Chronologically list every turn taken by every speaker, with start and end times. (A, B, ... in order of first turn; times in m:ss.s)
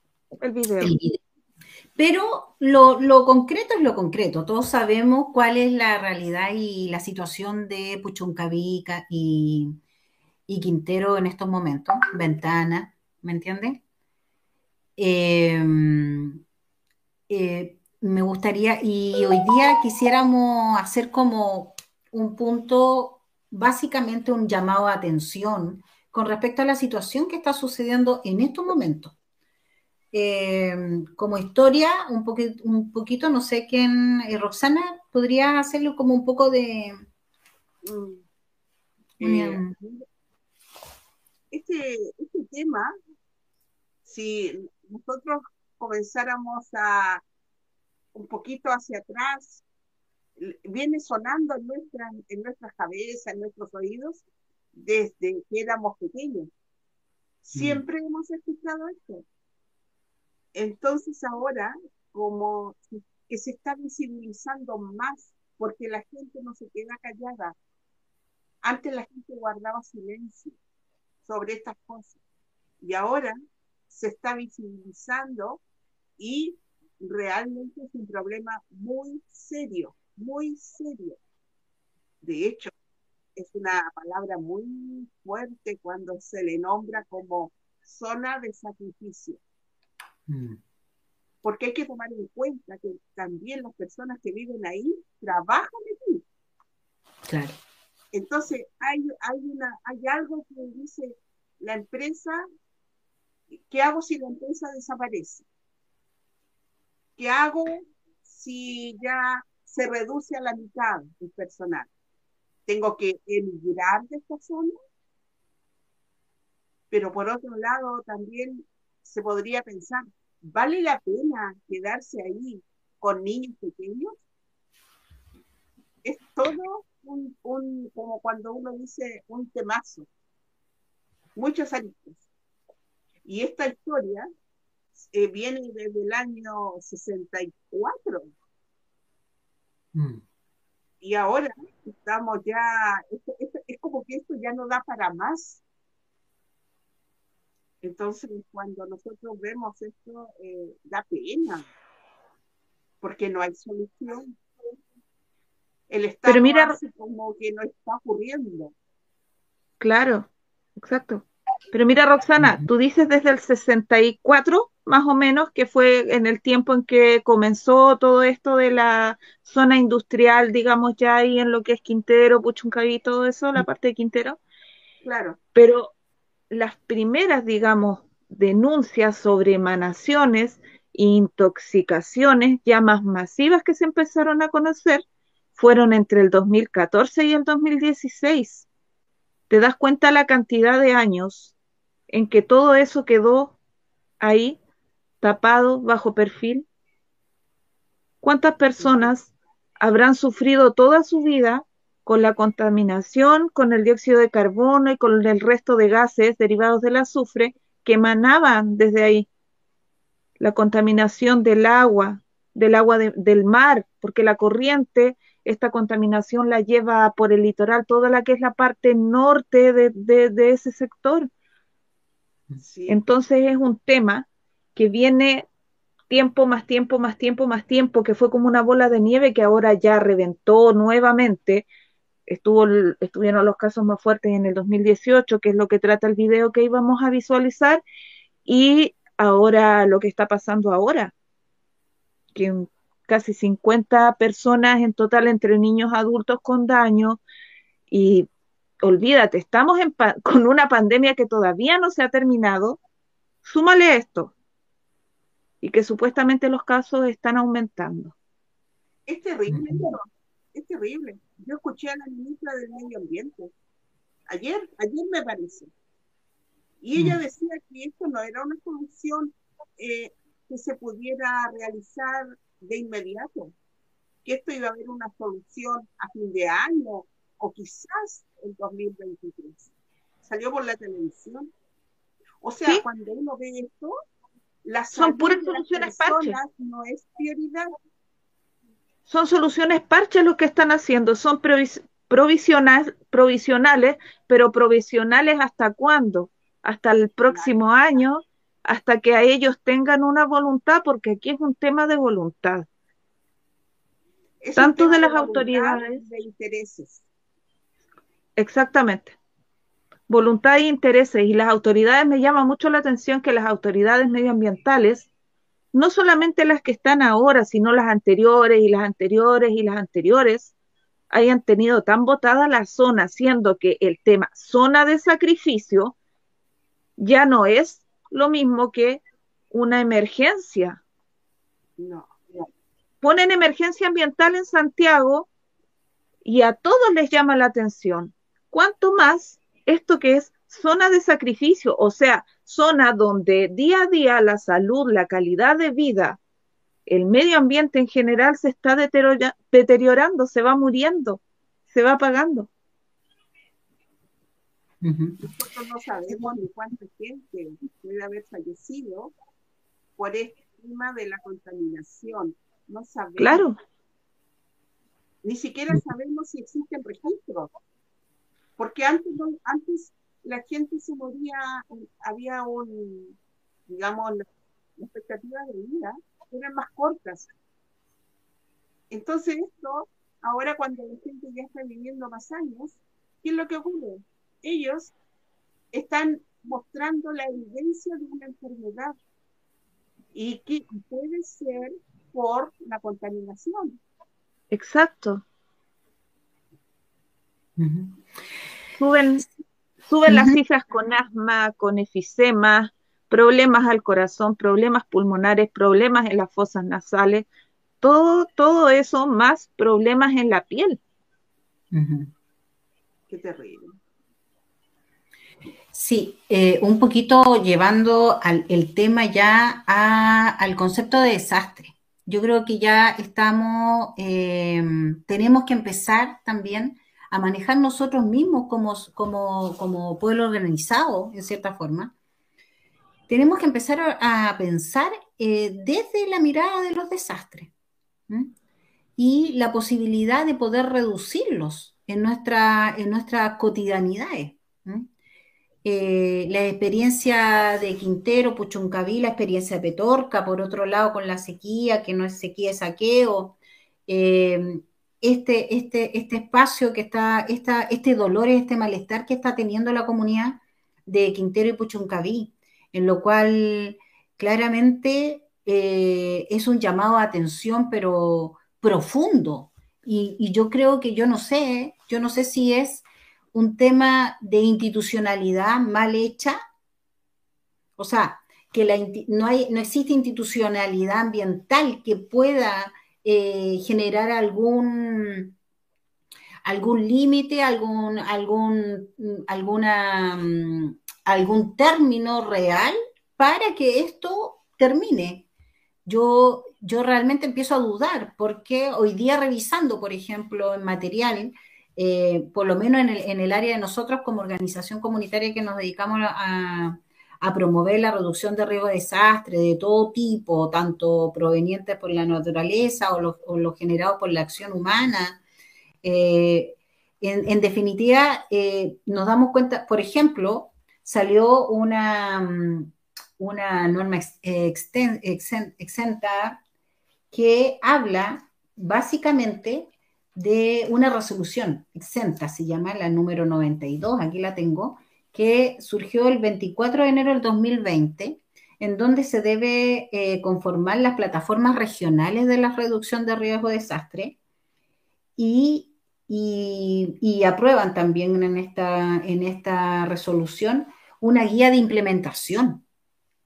0:00.4-0:01.0 A
0:00.8-0:01.2 B
0:02.0-0:09.8 B
0:10.5-0:13.8 B
0:15.0-0:16.4 B
0:17.3-0:29.2 B
0:30.1-0:37.0 B
0:37.8-0:38.2 C
0:39.2-0:39.7 B
0:39.2-0:40.0 C
0:41.5-0:42.9 C
0:44.1-0:47.2 C
0:48.1-0:49.6 C
0:50.4-0:56.5 C
0:57.5-0:59.2 C
0:57.6-0:57.8 B
1:00.6-1:07.6 C
1:08.6-1:10.6 C
1:11.2-1:12.2 C
1:12.8-1:13.4 C
1:13.9-1:15.6 C
1:16.2-1:21.2 C
1:22.2-1:22.7 C
1:23.4-1:29.4 C
1:30.3-1:30.6 B
1:31.4-1:36.2 C
1:37.3-1:37.6 B
1:38.1-1:42.4 C
1:43.6-1:45.5 C
1:47.2-1:51.9 C
1:52.7-1:54.8 C
1:56.9-2:04.2 C
2:06.0-2:10.1 C
2:11.4-2:12.2 C
2:13.2-2:14.3 C
2:15.1-2:18.3 C
2:20.0-2:20.2 B
2:21.0-2:25.6 C
2:27.8-2:31.7 C
2:33.0-2:34.3 C
2:35.9-2:38.7 C
2:36.3-2:36.8 A
2:39.8-2:54.4 A
2:42.4-2:42.7 B
2:55.0-2:55.4 C
2:55.6-2:55.9 A
2:56.5-3:05.0 A
3:05.6-3:08.7 A
3:09.5-3:11.5 A
3:12.1-3:13.6 A
3:14.2-3:14.6 A
3:15.2-3:16.7 A
3:18.2-3:29.3 A
3:18.8-3:19.1 C
3:30.4-3:41.3 A
3:42.6-3:43.0 C
3:42.9-3:45.5 A
3:46.1-3:51.7 A
3:52.3-3:57.8 A
3:58.5-4:01.1 A
4:02.4-4:07.2 A
4:07.9-4:08.3 A
4:08.8-4:12.8 A
4:13.4-4:14.3 A
4:15.6-4:18.2 A
4:19.1-4:23.5 C
4:19.5-4:19.9 B
4:24.3-4:25.7 C
4:26.8-4:33.5 C
4:27.0-4:27.2 B
4:34.2-4:39.7 C
4:40.2-4:41.5 C
4:42.4-4:43.9 C
4:44.6-4:47.7 C
4:45.0-4:46.4 A
4:49.1-5:02.7 A
4:57.3-4:57.5 C
5:04.4-5:07.0 C
5:04.6-5:06.0 A
5:08.4-5:09.2 A
5:10.1-5:15.1 A
5:15.7-5:20.5 A
5:21.1-5:26.0 A
5:27.0-5:30.8 A
5:31.8-5:32.5 C
5:33.0-5:35.3 A
5:36.2-5:46.2 A
5:46.9-5:52.5 A
5:54.8-5:55.2 B
5:55.2-5:59.1 C
6:00.0-6:03.4 C
6:03.2-6:03.6 A
6:05.2-6:07.5 C
6:08.6-6:13.2 C
6:13.7-6:14.2 C
6:14.8-6:17.3 C
6:18.9-6:24.9 C
6:25.7-6:29.0 C
6:30.1-6:33.8 C
6:34.5-6:35.2 A
6:37.6-6:38.0 B
6:38.8-6:39.3 A
6:39.9-6:47.3 A
6:40.1-6:40.4 B
6:47.8-6:50.8 A
6:51.7-6:52.1 B
6:53.1-6:53.8 C
6:55.7-7:11.9 B
7:13.1-7:17.5 B
7:19.0-7:24.9 B
7:25.6-7:56.4 B
7:57.8-8:05.4 B
8:06.4-8:15.3 B
8:15.9-8:35.2 B
8:35.8-8:46.4 B
8:47.1-9:04.2 B
9:05.2-9:12.6 B